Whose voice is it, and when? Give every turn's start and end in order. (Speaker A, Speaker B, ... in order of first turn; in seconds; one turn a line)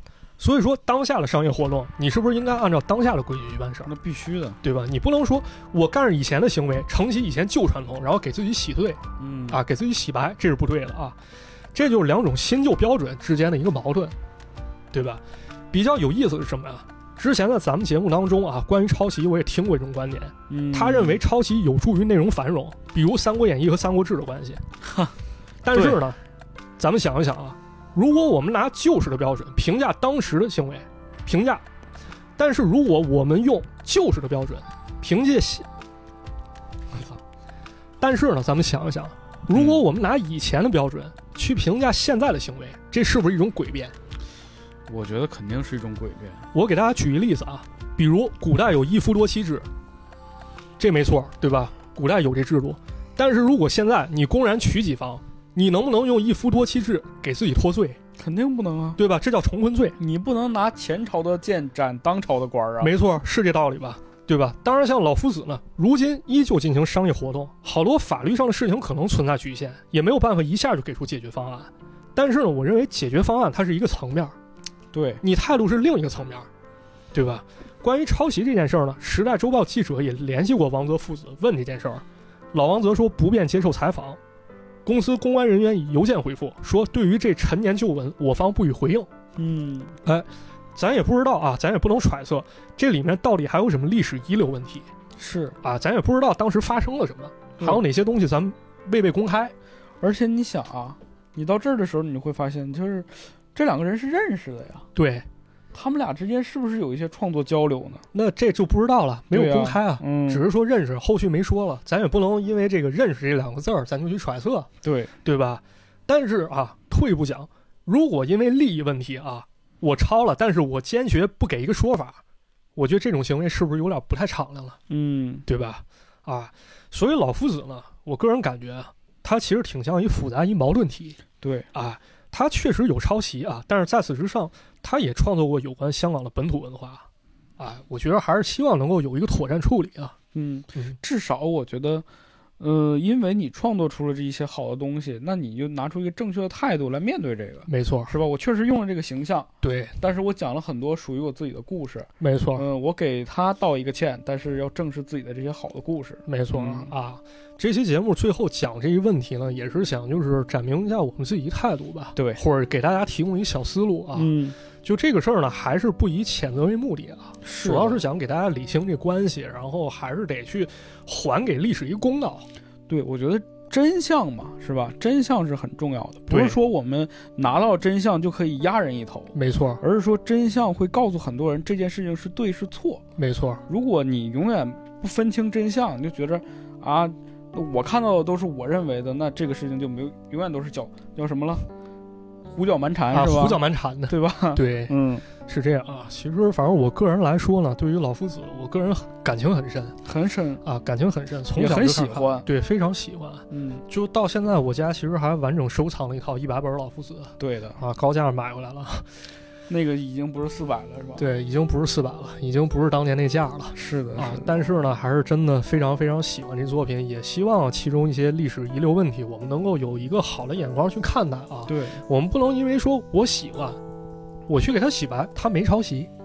Speaker A: 0.4-3.9
Speaker B: 3.8-4.6
Speaker A: 4.6-11.2
Speaker B: 9.2-9.6
Speaker A: 11.7-14.1
Speaker A: 14.9-24.6
Speaker B: 20.5-21.2
Speaker B: 24.8-25.1
Speaker A: 25.6-26.2
Speaker B: 25.7-26.0
Speaker A: 26.8-31.6
Speaker A: 32.4-35.7
Speaker A: 36.9-37.2
Speaker A: 38.0-43.9
Speaker B: 39.5-39.8
Speaker B: 44.9-46.5
Speaker A: 46.5-49.6
Speaker A: 50.8-58.0
Speaker B: 58.2-59.0
Speaker A: 59.0-60.0
Speaker B: 60.0-62.9
Speaker A: 62.8-74.3
Speaker B: 74.9-75.2
Speaker A: 75.2-76.5
Speaker A: 77.1-84.2
Speaker A: 84.8-89.1
Speaker B: 89.3-90.0
Speaker A: 90.0-94.9
Speaker B: 95.2-95.6
Speaker A: 95.6-99.5
Speaker B: 100.0-104.9
Speaker A: 104.9-105.2
Speaker B: 105.7-108.0
Speaker A: 108.1-114.7
Speaker B: 109.3-110.5
Speaker B: 114.8-115.1
Speaker A: 115.2-122.2
Speaker A: 122.8-124.8
Speaker B: 124.9-125.5
Speaker A: 125.5-131.2
Speaker B: 131.4-131.7
Speaker A: 131.7-137.1
Speaker A: 137.6-140.1
Speaker B: 140.3-142.0
Speaker B: 142.6-156.9
Speaker A: 147.7-148.1
Speaker A: 149.6-149.9
Speaker A: 152.2-152.6
Speaker A: 156.3-172.5
Speaker B: 162.2-162.4
Speaker B: 164.1-164.6
Speaker B: 167.4-168.0
Speaker B: 172.9-183.0
Speaker A: 176.3-176.6
Speaker A: 179.3-179.8
Speaker A: 183.2-183.6
Speaker B: 183.7-191.7
Speaker B: 192.5-195.2
Speaker A: 193.1-200.0
Speaker B: 200.0-200.6
Speaker A: 200.6-209.1
Speaker B: 201.5-202.5
Speaker B: 203.5-203.8
Speaker B: 207.4-207.8
Speaker B: 209.7-211.3
Speaker A: 211.2-223.8
Speaker B: 213.7-214.5
Speaker B: 221.7-222.0
Speaker A: 224.5-226.1